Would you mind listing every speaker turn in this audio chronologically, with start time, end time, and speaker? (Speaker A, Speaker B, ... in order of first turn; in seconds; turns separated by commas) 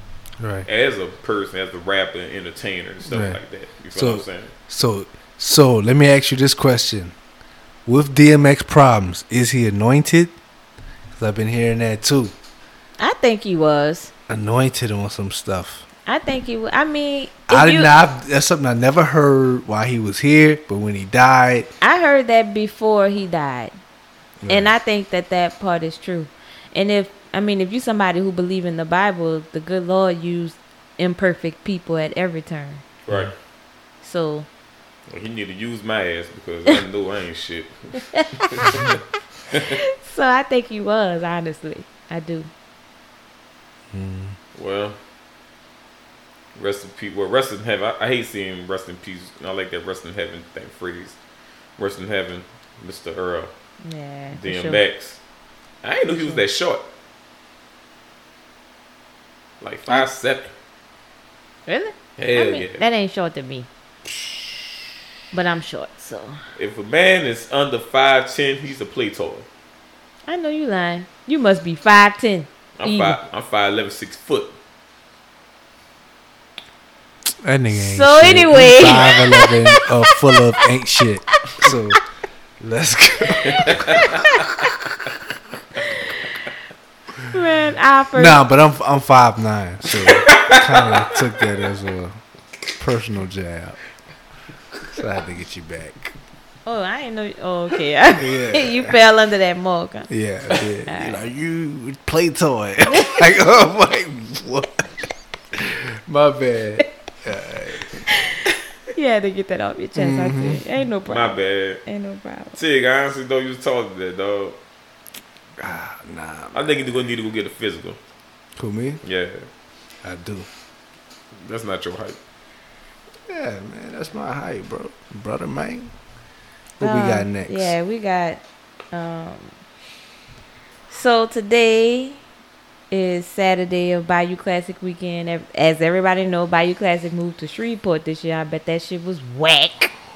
Speaker A: 0.4-0.7, Speaker B: 0.7-4.5, Speaker A: 3.0-3.4, Speaker A: 4.0-7.2, Speaker A: 7.9-10.3, Speaker A: 11.2-12.3, Speaker C: 13.0-14.1, Speaker A: 14.3-15.9, Speaker C: 16.1-17.9, Speaker A: 17.5-21.7, Speaker C: 21.8-23.7, Speaker A: 24.4-24.7, Speaker C: 24.5-32.8, Speaker B: 33.1-33.3, Speaker C: 34.0-34.5, Speaker B: 35.1-37.8, Speaker B: 38.4-38.9, Speaker B: 39.5-39.8, Speaker C: 39.7-42.5, Speaker A: 43.9-44.4, Speaker B: 44.6-45.0, Speaker B: 46.6-51.2, Speaker B: 51.8-53.5, Speaker C: 53.8-54.8, Speaker B: 54.4-55.2, Speaker B: 55.8-56.9, Speaker B: 59.6-60.5, Speaker C: 61.7-63.7, Speaker B: 62.2-62.8, Speaker C: 65.3-66.4, Speaker B: 66.6-69.5, Speaker C: 70.3-73.2, Speaker B: 72.8-74.5, Speaker A: 77.4-82.0, Speaker C: 77.7-80.4, Speaker C: 81.5-81.8, Speaker A: 82.6-84.1, Speaker B: 83.5-84.2, Speaker C: 84.0-84.5, Speaker C: 87.3-88.4, Speaker A: 88.2-92.2, Speaker B: 90.0-91.2, Speaker A: 92.8-93.8, Speaker A: 94.9-96.2, Speaker C: 96.7-100.1, Speaker A: 98.2-99.0, Speaker A: 100.1-104.9, Speaker C: 100.9-101.2, Speaker A: 105.5-108.0, Speaker C: 108.9-112.6, Speaker A: 110.0-110.6, Speaker B: 111.1-111.8, Speaker B: 112.5-114.6, Speaker A: 115.6-116.9, Speaker B: 116.5-118.0, Speaker A: 118.6-119.0, Speaker B: 119.0-119.5, Speaker A: 120.0-120.5, Speaker B: 121.4-122.2, Speaker A: 123.3-125.9, Speaker A: 126.8-127.8, Speaker C: 126.8-129.6, Speaker C: 130.9-132.2, Speaker C: 132.9-139.9